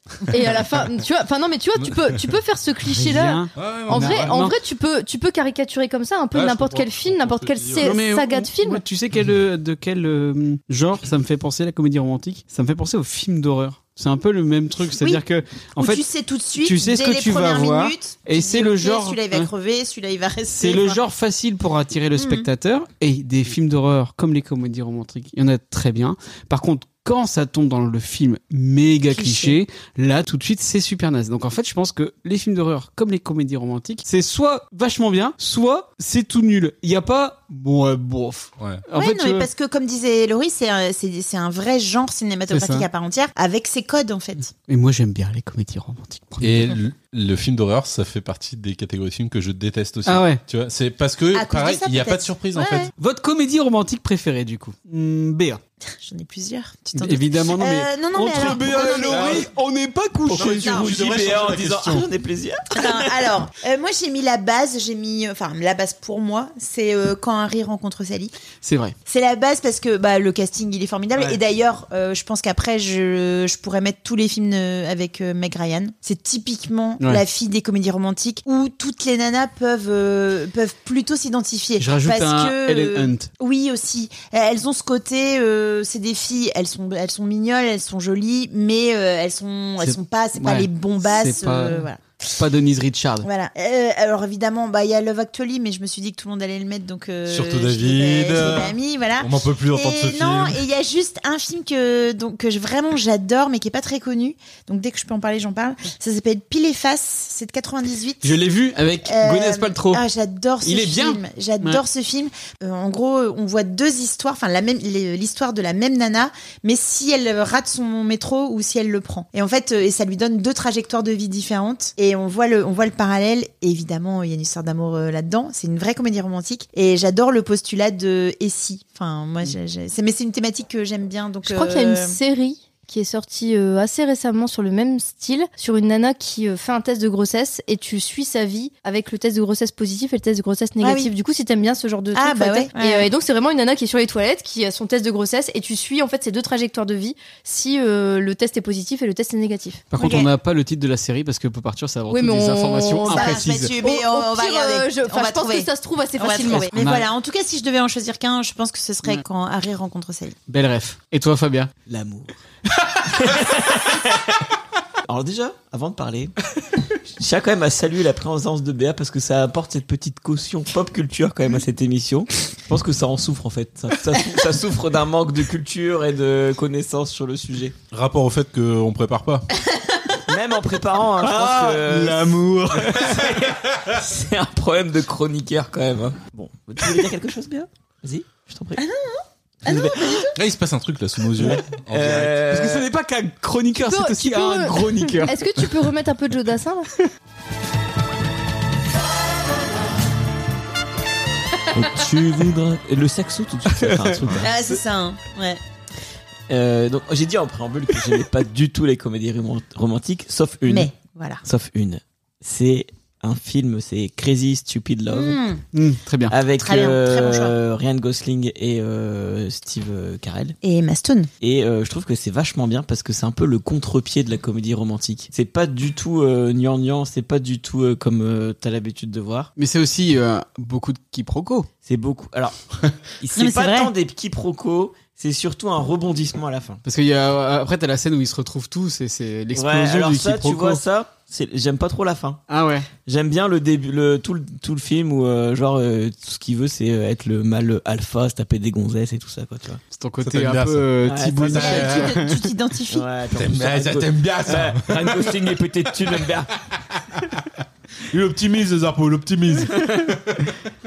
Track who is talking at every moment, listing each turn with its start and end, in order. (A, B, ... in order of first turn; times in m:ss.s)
0:00.3-0:08.8 A
0:01.8-0:02.1 B
0:02.9-0:04.6 C
0:03.6-0:04.4 B
0:06.3-0:08.0 B
0:07.8-0:16.0 C
0:15.0-0:15.2 D
0:15.8-0:21.0 D
0:16.6-0:19.5 C
0:20.5-0:39.5 C
0:22.2-0:22.5 D
0:29.1-0:29.6 D
0:39.0-0:44.5 D
0:42.5-0:42.9 C
0:44.6-0:46.8 C
0:46.4-0:52.9 B
0:50.1-0:50.4 C
0:51.3-0:52.9 D
0:53.0-0:55.6 C
0:55.8-0:59.5 D
0:56.9-1:00.8 C
0:59.1-0:59.5 B
1:00.3-1:01.0 D
1:00.3-1:02.1 B
1:00.4-1:03.1 E
1:02.7-1:08.4 D
1:08.6-1:09.0 C
1:09.1-1:32.1 D
1:21.8-1:23.3 C
1:29.8-1:33.3 C
1:33.2-1:48.4 D
1:37.3-1:40.6 B
1:48.2-1:50.0 C
1:49.0-2:12.2 D
1:50.6-1:51.8 C
2:11.4-2:29.8 A
2:20.8-2:21.1 D
2:22.2-2:23.1 D
2:29.9-2:33.7 C
2:30.0-2:30.3 D
2:32.1-2:36.7 A
2:33.0-2:40.4 D
2:36.5-2:37.1 C
2:40.5-2:41.7 C
2:41.9-2:42.4 E
2:43.1-2:44.4 E
2:45.1-2:46.4 E
2:47.2-2:57.8 E
2:57.9-2:59.5 B
2:59.7-3:00.1 D
3:00.3-3:08.8 E
3:01.2-3:03.3 C
3:08.8-3:10.4 D
3:09.6-3:10.2 E
3:10.4-3:12.4 B
3:11.4-3:12.9 E
3:12.5-3:15.9 C
3:13.8-3:16.9 A
3:21.7-3:24.5 E
3:23.8-3:24.3 C
3:24.4-3:25.6 D
3:26.5-3:30.9 E
3:30.7-3:31.4 D
3:31.4-3:35.4 E
3:35.1-3:35.6 D
3:35.7-3:36.4 C
3:36.3-3:40.6 E
3:36.6-3:37.5 D
3:40.6-3:41.3 D
3:41.4-3:49.5 E
3:49.6-3:51.7 C
3:51.9-3:52.6 E
3:53.2-3:56.8 E
3:53.4-3:53.9 D
3:56.8-4:00.8 C
3:59.5-4:02.4 E
4:02.5-4:02.9 C
4:03.1-4:09.8 E
4:09.9-4:12.4 C
4:10.2-4:12.2 B
4:11.0-4:11.8 E
4:11.6-4:13.0 D
4:12.9-4:16.5 E
4:13.3-4:15.5 B
4:18.1-4:20.5 B